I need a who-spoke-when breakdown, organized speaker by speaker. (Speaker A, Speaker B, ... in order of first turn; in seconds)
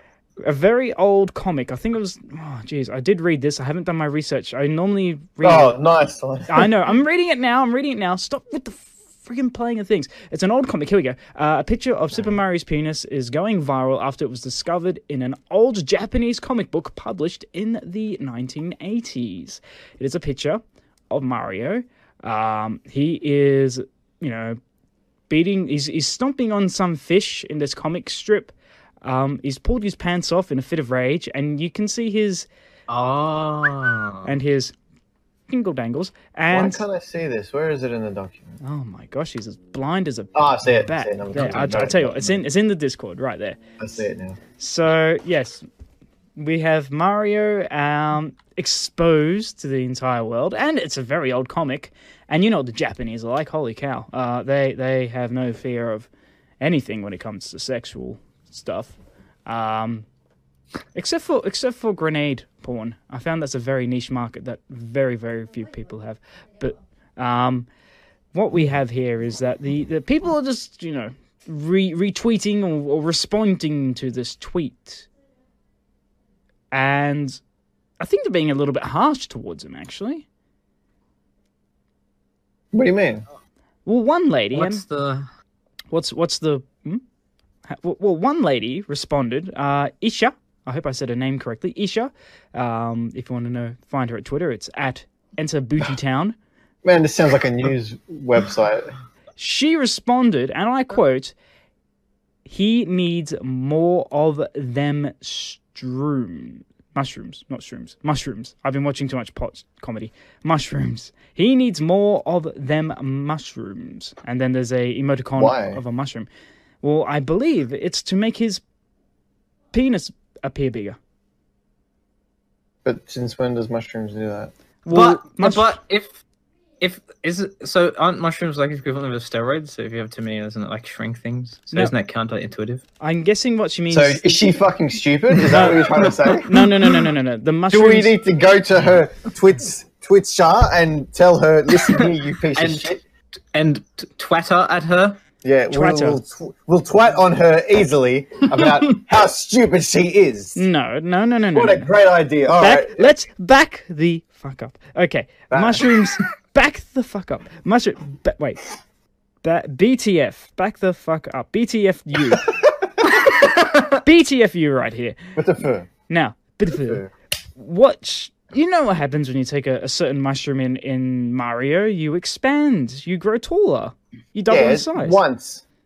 Speaker A: 0.4-5.8, 6.5-24.6, 25.3-32.5, 34.2-34.7, 35.5-36.8, 38.6-43.6, 44.6-45.6, 46.4-56.1, 56.6-58.9, 59.5-60.0, 60.9-67.7, 68.3-75.1, 76.7-77.4, 78.0-80.2, 83.8-84.8, 85.9-87.0, 87.7-96.3, 99.4-101.3, 102.5-116.3, 116.8-118.6, 119.7-121.0, 124.8-125.8, 133.0-134.2, 135.4-138.2, 145.7-146.2, 150.5-151.9, 152.5-158.6, 159.4-162.5, 164.0-165.2, 166.1-167.0, 167.6-175.2
Speaker B: 5.4-6.7, 36.5-38.5, 40.3-42.4, 43.8-44.4, 82.7-83.2, 96.8-98.9, 115.3-115.8, 122.8-124.5, 133.9-136.7, 137.7-143.0, 145.4-150.6, 151.5-153.1, 155.5-155.9, 165.3-165.9, 166.7-167.1, 174.5-175.6
Speaker C: 32.9-34.3, 41.3-41.7, 84.5-85.3, 124.9-126.2, 126.8-132.8, 142.5-142.9, 143.5-145.2, 163.3-163.9